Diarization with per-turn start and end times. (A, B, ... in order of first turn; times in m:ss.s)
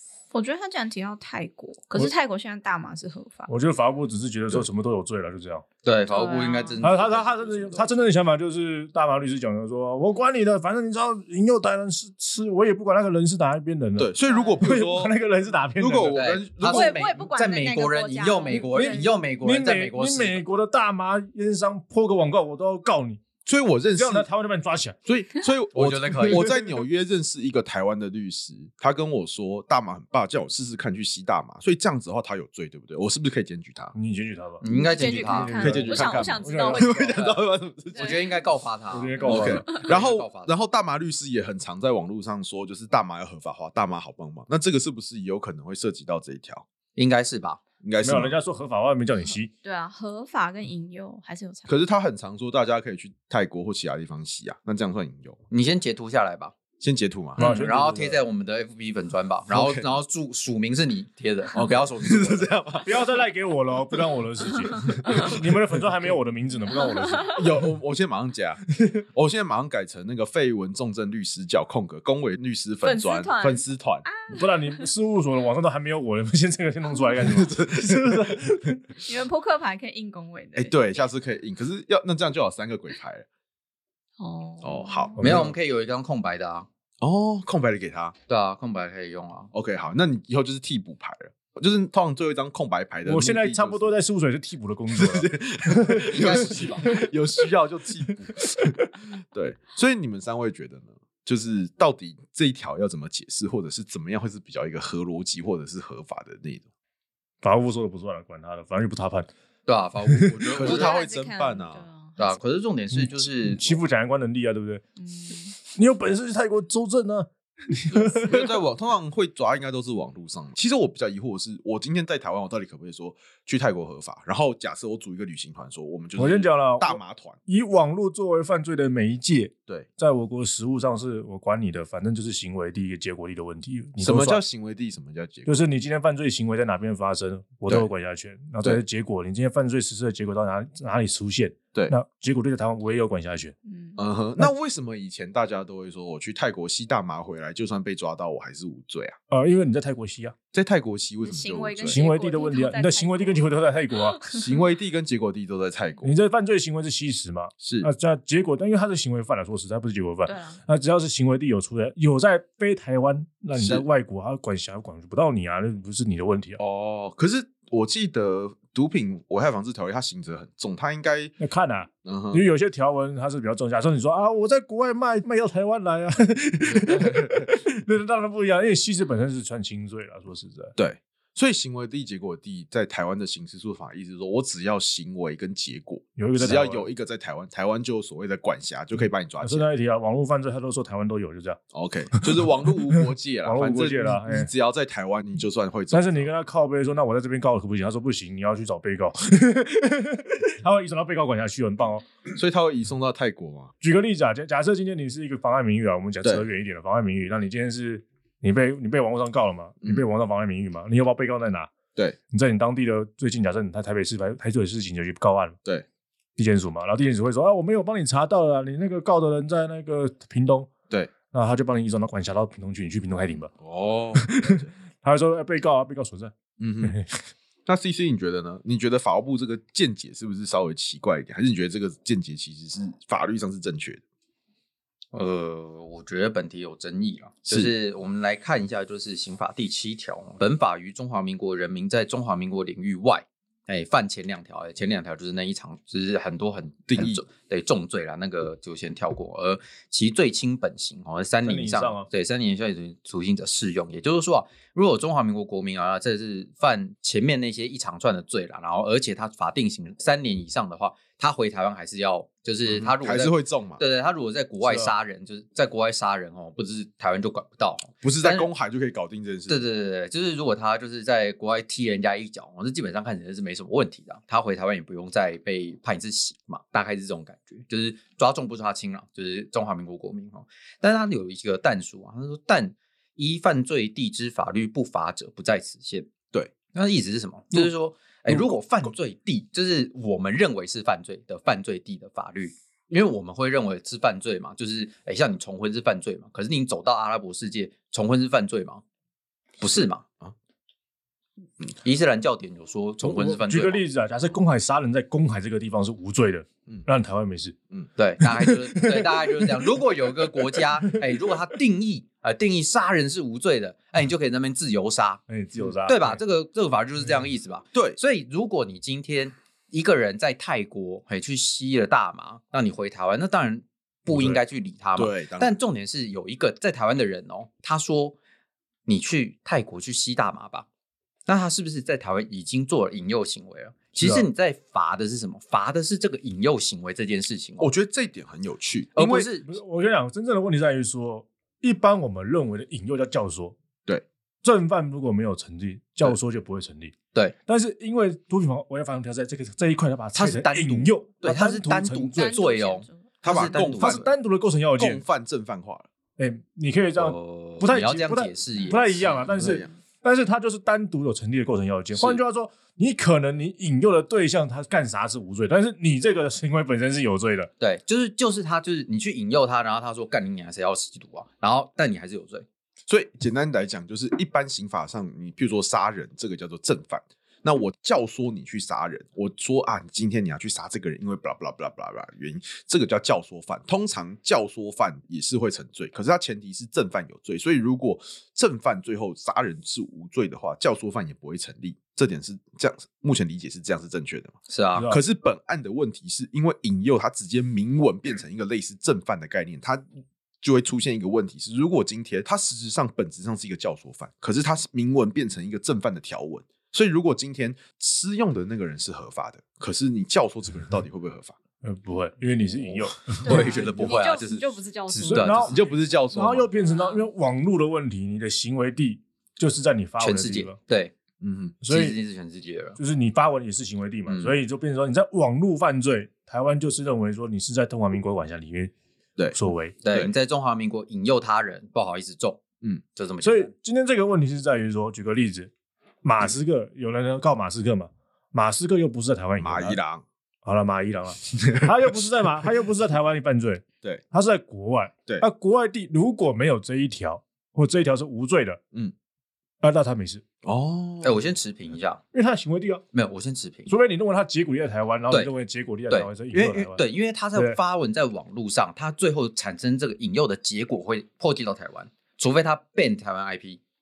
0:00.3-0:03.5 A
0:03.5-0:05.7 B
0:05.8-0:07.9 C
0:06.0-0:06.8 A
0:06.8-0:16.2 B
0:14.0-0:15.1 D
0:14.2-0:14.6 A
0:15.8-0:17.0 D
0:16.1-0:20.4 C
0:16.6-0:19.1 A
0:18.4-0:23.2 B
0:23.4-0:24.3 D
0:24.0-0:25.0 B
0:25.0-0:33.9 D
0:25.7-0:26.5 C
0:33.9-0:37.2 B
0:34.6-0:35.7 C
0:34.7-0:37.4 A
0:35.6-0:38.3 D
0:37.9-0:40.5 C
0:38.9-0:39.8 B
0:39.2-0:46.6 D
0:46.9-0:47.6 C
0:47.8-0:48.4 D
0:48.0-0:49.5 B
0:49.6-0:51.7 A
0:51.7-0:55.4 D
0:55.5-0:56.5 C
0:56.8-0:57.4 D
0:57.4-0:58.2 B
0:57.4-1:02.5 C
0:59.5-0:59.9 D
1:01.5-1:03.0 D
1:02.8-1:07.4 B
1:04.8-1:05.8 D
1:07.1-1:07.4 A
1:07.3-1:14.1 D
1:12.8-1:14.5 A
1:14.3-1:18.8 B
1:17.2-1:18.5 D
1:19.0-1:21.0 A
1:20.5-1:23.2 D
1:24.2-1:25.3 A
1:24.6-1:25.5 D
1:25.2-1:25.5 B
1:25.2-1:26.7 C
1:27.0-1:28.1 D
1:28.3-1:29.5 C
1:29.5-1:33.9 D
1:33.0-1:36.1 B
1:34.9-1:38.8 D
1:36.1-1:36.9 C
1:39.3-1:46.6 D
1:47.4-1:49.3 B
1:49.6-1:51.0 C
1:50.1-1:50.7 B
1:50.5-1:51.8 D
1:50.6-1:52.3 A
1:52.2-1:53.8 C
1:52.9-1:54.8 B
1:55.0-1:55.6 A
1:55.6-1:58.5 B
1:57.9-2:07.4 D
2:06.2-2:14.4 B
2:14.0-2:15.5 D
2:15.4-2:23.5 B
2:23.6-2:24.0 A
2:24.0-2:29.2 D
2:29.3-2:30.3 B
2:30.5-2:32.0 D
2:31.2-2:34.6 A
2:31.8-2:34.2 B
2:34.2-2:36.1 D
2:36.0-2:46.6 B
2:37.6-2:37.9 D
2:40.2-2:40.6 A
2:43.5-2:43.9 D
2:46.6-2:51.3 D
2:51.4-3:00.7 B
2:52.0-2:52.4 D
2:56.8-2:57.4 D
3:00.8-3:09.7 D
3:06.2-3:06.9 B
3:09.4-3:11.6 B
3:11.7-3:16.3 D
3:13.4-3:14.5 B
3:15.9-3:22.0 B
3:22.3-3:23.7 D
3:23.8-3:31.7 B
3:32.3-3:35.6 B
3:36.4-3:40.7 B
3:41.3-3:43.5 B
3:43.6-3:44.7 D
3:44.1-3:47.1 B
3:46.6-3:46.9 D
3:47.6-3:54.0 D
3:55.1-4:28.5 C
3:57.4-3:57.7 D
4:06.9-4:07.2 D
4:11.4-4:12.1 B
4:22.7-4:23.8 D
4:24.6-4:24.9 B
4:28.0-4:29.6 D
4:29.5-4:46.1 C
4:46.7-4:58.8 C
4:48.3-4:48.6 D
4:59.6-5:00.0 C
5:01.8-5:03.8 C
5:03.0-5:07.6 B
5:08.0-5:15.2 C
5:08.2-5:09.5 B
5:10.6-5:10.9 B
5:15.3-5:16.2 B
5:15.8-5:28.2 C
5:17.7-5:18.0 D
5:24.1-5:24.4 D
5:25.0-5:25.5 D
5:28.8-5:30.7 C
5:31.3-5:37.7 C
5:34.0-5:34.2 B
5:37.6-5:39.3 D
5:39.0-5:39.5 C
5:39.4-5:43.6 B
5:44.4-5:46.9 B
5:47.5-5:52.4 B
5:50.1-5:54.0 C
5:52.1-5:53.1 A
5:53.2-5:54.1 D
5:53.7-5:55.0 B
5:54.8-5:55.9 D
5:56.2-6:07.5 B
5:57.0-5:59.5 C
5:59.4-5:59.7 D
6:07.6-6:12.4 C
6:12.9-6:34.3 D
6:34.5-6:34.9 C
6:34.7-6:35.0 B
6:34.9-6:39.8 D
6:40.4-6:51.4 D
6:51.6-6:53.6 B
6:53.2-6:55.8 A
6:53.2-6:55.5 C
6:53.3-6:54.4 D
6:55.1-6:55.6 B
6:55.3-6:56.5 D
6:56.1-7:00.6 B
6:56.5-6:57.1 A
7:00.0-7:00.9 C
7:01.2-7:01.6 D
7:01.6-7:02.0 B
7:01.7-7:02.8 C
7:02.8-7:08.7 B
7:04.0-7:04.3 C
7:09.2-7:10.1 D
7:09.3-7:09.8 B
7:09.8-7:12.4 C
7:12.9-7:13.5 C
7:13.2-7:15.5 B
7:16.0-7:19.8 B
7:19.4-7:20.0 D
7:20.4-7:28.6 B
7:29.6-7:30.2 B
7:30.4-7:31.3 D
7:31.0-7:32.0 C
7:32.1-7:32.8 B
7:32.9-7:33.7 C
7:33.7-7:36.8 B
7:35.9-7:43.6 C
7:37.3-7:37.6 B